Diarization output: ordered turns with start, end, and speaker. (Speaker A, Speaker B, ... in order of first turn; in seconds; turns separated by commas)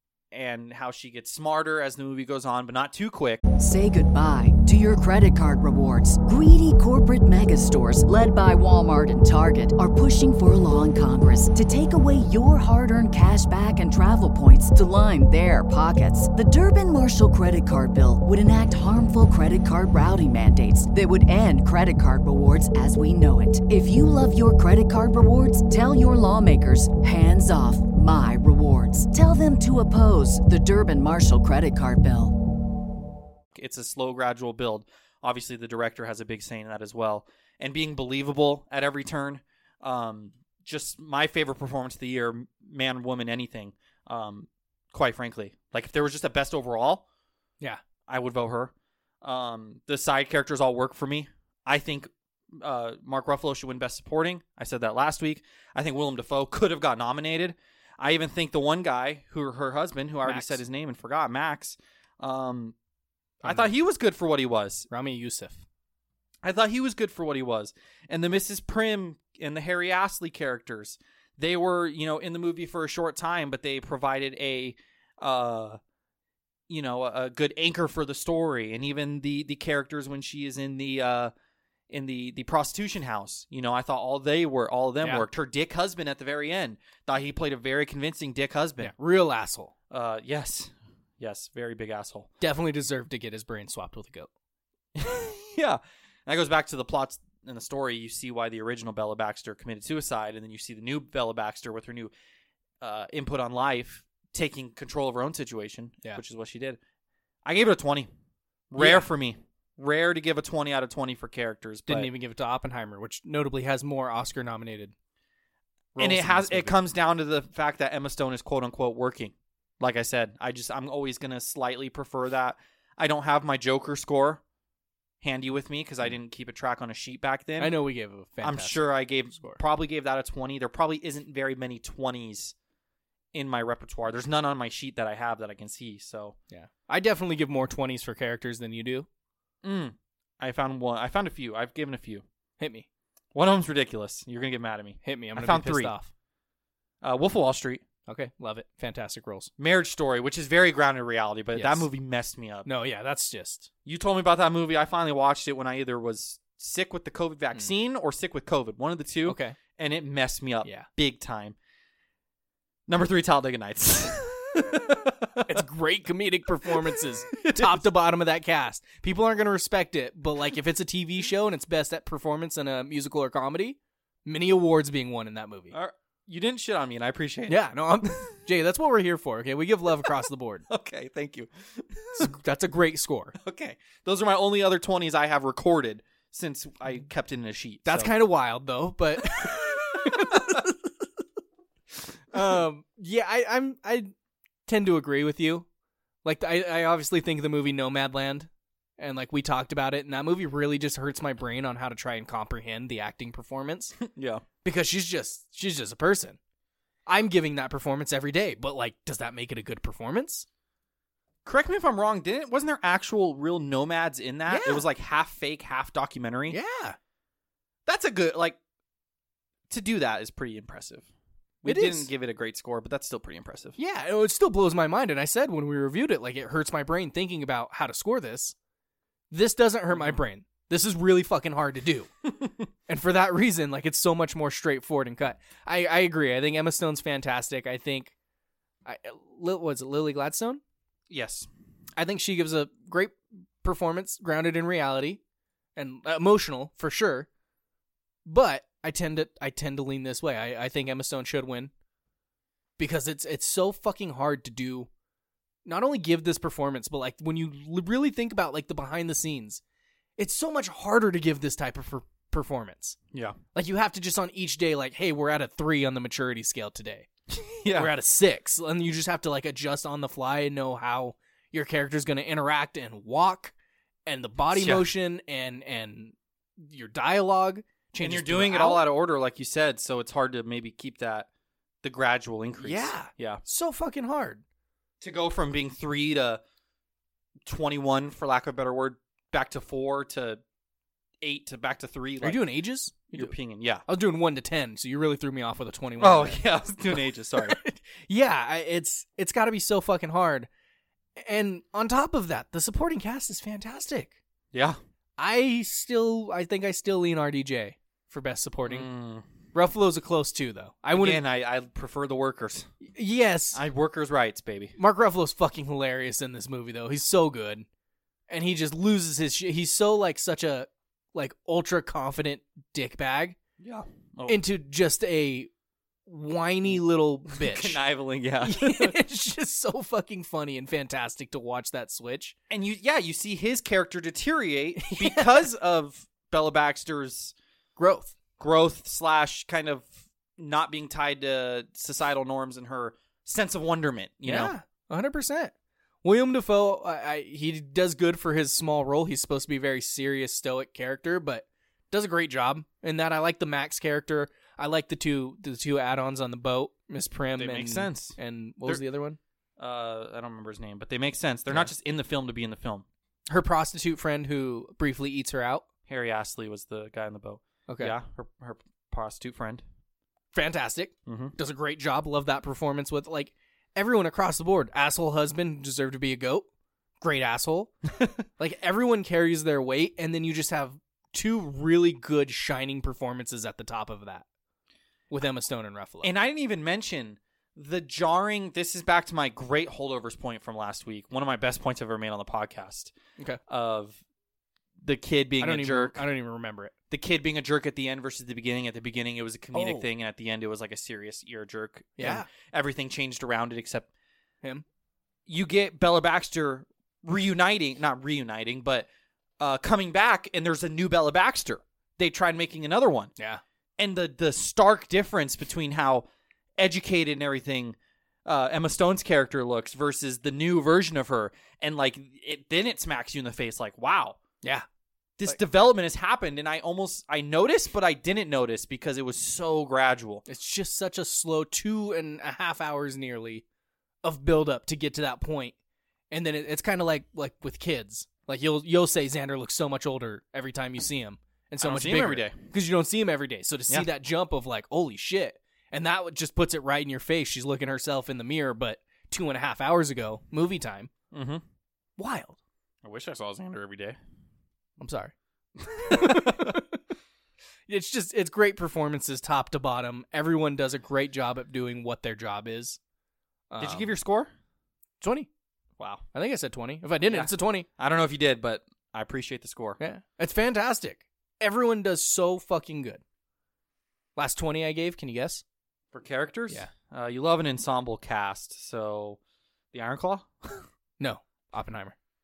Speaker A: 0.3-3.4, Speaker B: 3.6-32.3, Speaker A: 33.5-47.0, Speaker A: 48.1-62.7, Speaker C: 60.2-60.6, Speaker A: 63.4-64.9, Speaker C: 63.4-63.7, Speaker C: 64.9-65.6, Speaker A: 66.4-75.8, Speaker A: 76.7-81.3, Speaker A: 81.9-88.9, Speaker C: 85.0-85.3, Speaker C: 88.8-89.7, Speaker A: 89.9-92.3, Speaker C: 92.4-94.3, Speaker A: 95.0-102.1, Speaker A: 102.8-106.8, Speaker A: 107.4-108.1, Speaker A: 108.7-112.1, Speaker C: 108.8-109.1, Speaker C: 111.9-114.9, Speaker C: 115.9-116.8, Speaker A: 116.0-124.4, Speaker A: 125.2-127.7, Speaker C: 127.6-129.6, Speaker A: 128.4-132.5, Speaker A: 133.3-136.3, Speaker C: 136.5-139.1, Speaker A: 139.6-142.2, Speaker C: 142.6-142.9, Speaker A: 143.3-145.9, Speaker C: 145.0-146.1, Speaker A: 147.0-147.8, Speaker C: 148.1-149.5, Speaker A: 149.6-152.7, Speaker C: 151.5-151.9, Speaker C: 152.6-153.7, Speaker A: 153.8-161.6, Speaker C: 159.2-159.6, Speaker A: 162.9-165.6, Speaker C: 165.4-175.7, Speaker A: 167.3-167.8, Speaker A: 175.7-177.6, Speaker C: 177.5-180.7, Speaker A: 180.7-182.3, Speaker C: 182.1-183.4, Speaker A: 183.4-188.1, Speaker C: 187.8-190.9, Speaker A: 189.5-190.6, Speaker C: 192.1-194.1, Speaker C: 194.7-195.7, Speaker C: 196.2-203.9, Speaker A: 204.0-204.4, Speaker C: 204.6-206.4, Speaker C: 207.1-210.4, Speaker A: 211.4-216.6, Speaker C: 214.5-214.8, Speaker C: 216.5-217.0, Speaker A: 217.9-218.6, Speaker A: 219.7-221.1, Speaker A: 221.6-223.8, Speaker C: 221.6-222.1, Speaker C: 223.8-228.5, Speaker C: 229.3-232.1, Speaker A: 229.9-230.2, Speaker C: 232.9-238.1, Speaker C: 238.8-240.6, Speaker A: 241.1-241.5, Speaker C: 242.0-245.2, Speaker C: 245.8-247.3, Speaker C: 248.2-251.7, Speaker C: 252.8-254.9, Speaker C: 255.6-259.6, Speaker C: 260.2-263.0, Speaker A: 263.1-263.4, Speaker C: 263.5-267.1, Speaker A: 267.5-267.9, Speaker C: 267.6-273.5, Speaker C: 274.1-278.8, Speaker A: 274.5-274.9, Speaker A: 278.0-281.3, Speaker A: 281.8-283.4, Speaker C: 282.6-284.4, Speaker A: 285.0-286.4, Speaker A: 287.4-290.4, Speaker A: 291.2-292.4, Speaker C: 292.2-293.3, Speaker A: 293.1-293.8, Speaker C: 293.9-296.4, Speaker A: 296.0-297.6, Speaker C: 296.9-300.5, Speaker C: 301.2-304.2, Speaker A: 304.5-304.8, Speaker C: 305.2-308.9, Speaker A: 308.7-309.2, Speaker C: 309.5-311.2, Speaker A: 310.9-312.7, Speaker C: 312.8-313.6, Speaker A: 313.5-314.8, Speaker C: 314.8-317.6, Speaker C: 318.3-323.4, Speaker A: 323.6-324.4, Speaker C: 324.3-325.5, Speaker C: 326.1-327.8, Speaker A: 327.3-329.0, Speaker C: 328.4-332.4, Speaker A: 332.5-337.3, Speaker C: 334.8-335.5, Speaker C: 337.8-338.2, Speaker A: 338.4-344.5, Speaker C: 344.2-359.2, Speaker A: 357.4-358.8, Speaker A: 359.6-362.8, Speaker C: 363.3-365.6, Speaker A: 365.9-369.6, Speaker C: 367.7-367.9, Speaker C: 370.3-376.5, Speaker A: 371.1-371.3, Speaker C: 377.0-377.8, Speaker C: 378.4-384.2, Speaker C: 385.1-386.1, Speaker A: 386.0-392.9, Speaker A: 393.5-394.0, Speaker A: 394.8-396.0, Speaker C: 395.4-396.7, Speaker A: 396.9-403.9, Speaker C: 399.5-399.9, Speaker C: 402.0-402.3, Speaker A: 405.3-408.9, Speaker A: 409.4-413.1, Speaker A: 413.8-416.1, Speaker A: 416.6-424.2, Speaker A: 425.2-430.2, Speaker C: 430.3-433.4, Speaker C: 434.0-435.5, Speaker C: 436.1-450.9, Speaker A: 441.6-442.4, Speaker A: 451.1-451.4, Speaker C: 452.0-452.4, Speaker A: 452.8-454.0, Speaker C: 454.8-455.1, Speaker A: 455.6-456.6, Speaker C: 455.7-456.8, Speaker C: 457.7-462.8, Speaker C: 463.5-463.9, Speaker A: 463.6-464.3, Speaker C: 465.0-465.3, Speaker A: 465.8-466.0, Speaker C: 466.1-467.7, Speaker A: 467.1-469.8, Speaker C: 469.8-473.0, Speaker C: 474.1-475.4, Speaker A: 475.9-479.2, Speaker A: 479.7-480.6, Speaker C: 481.0-481.9